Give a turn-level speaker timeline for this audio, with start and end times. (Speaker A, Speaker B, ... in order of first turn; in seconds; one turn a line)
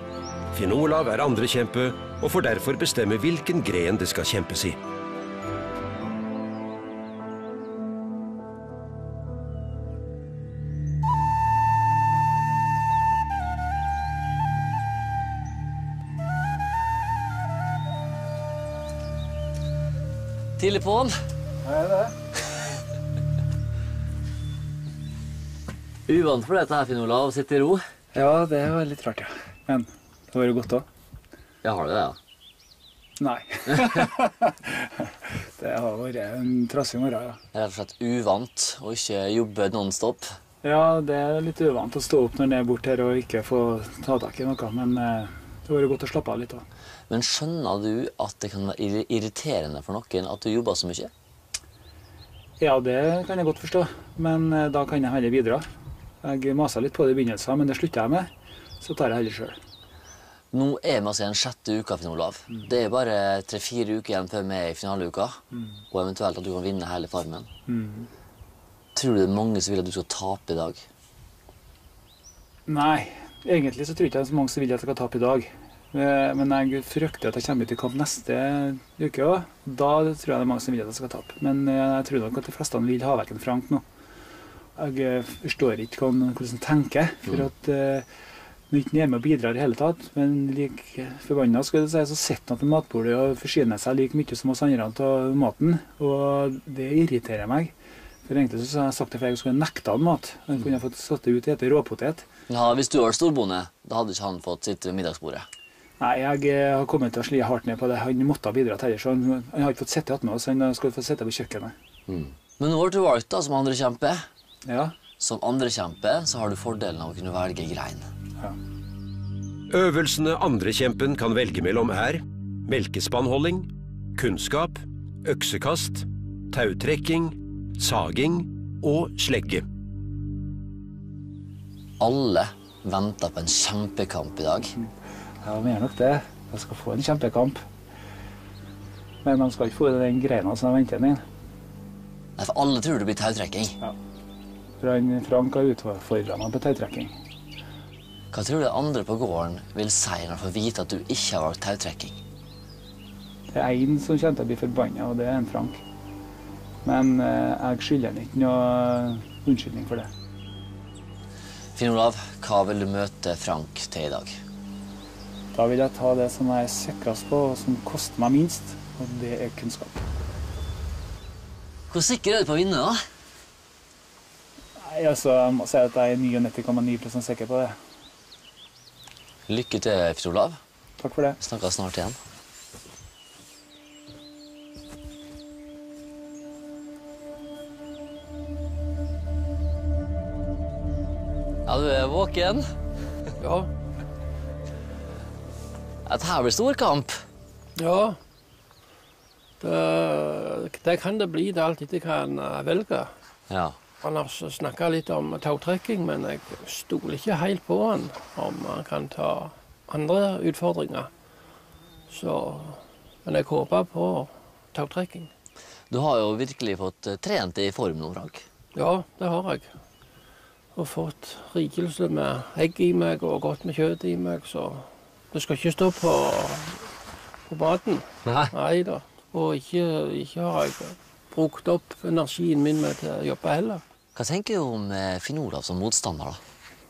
Speaker A: 0.5-4.8
Speaker B: 20.6-21.1
Speaker C: 21.6-22.1
Speaker B: 26.1-27.8
Speaker C: 28.1-30.9
Speaker B: 31.6-32.2
Speaker C: 33.2-37.4
Speaker B: 37.5-40.3
Speaker C: 40.6-46.6
Speaker B: 47.1-51.1
Speaker C: 52.6-55.6
Speaker C: 56.2-58.3
Speaker C: 58.8-59.6
Speaker B: 60.5-67.5
Speaker C: 67.7-68.1
Speaker B: 68.9-70.8
Speaker C: 72.7-83.8
Speaker C: 84.8-88.1
Speaker C: 88.7-97.7
Speaker C: 98.2-102.3
Speaker B: 102.5-105.5
Speaker C: 106.0-111.7
Speaker B: 112.1-114.3
Speaker C: 114.7-114.9
Speaker B: 115.2-118.1
Speaker A: 119.7-129.6
Speaker B: 132.0-134.7
Speaker C: 135.4-137.6
Speaker C: 139.2-141.2
Speaker B: 142.4-143.8
Speaker C: 144.8-147.1
Speaker B: 148.3-152.2
Speaker C: 153.5-155.8
Speaker C: 156.8-160.1
Speaker B: 161.7-164.4
Speaker C: 165.5-170.0
Speaker B: 171.9-173.0
Speaker C: 174.8-177.8
Speaker B: 179.5-180.6
Speaker C: 181.0-181.4
Speaker B: 181.4-182.2
Speaker B: 191.7-192.7
Speaker D: 193.4-193.7
Speaker B: 196.1-197.1
Speaker D: 197.8-198.2
Speaker D: 199.6-203.1
Speaker B: 203.5-203.8
Speaker D: 204.0-211.1
Speaker D: 212.1-215.3
Speaker B: 215.9-218.4
Speaker D: 218.7-219.7
Speaker D: 220.7-226.8
Speaker D: 227.5-233.8
Speaker B: 228.2-228.5
Speaker B: 234.1-236.4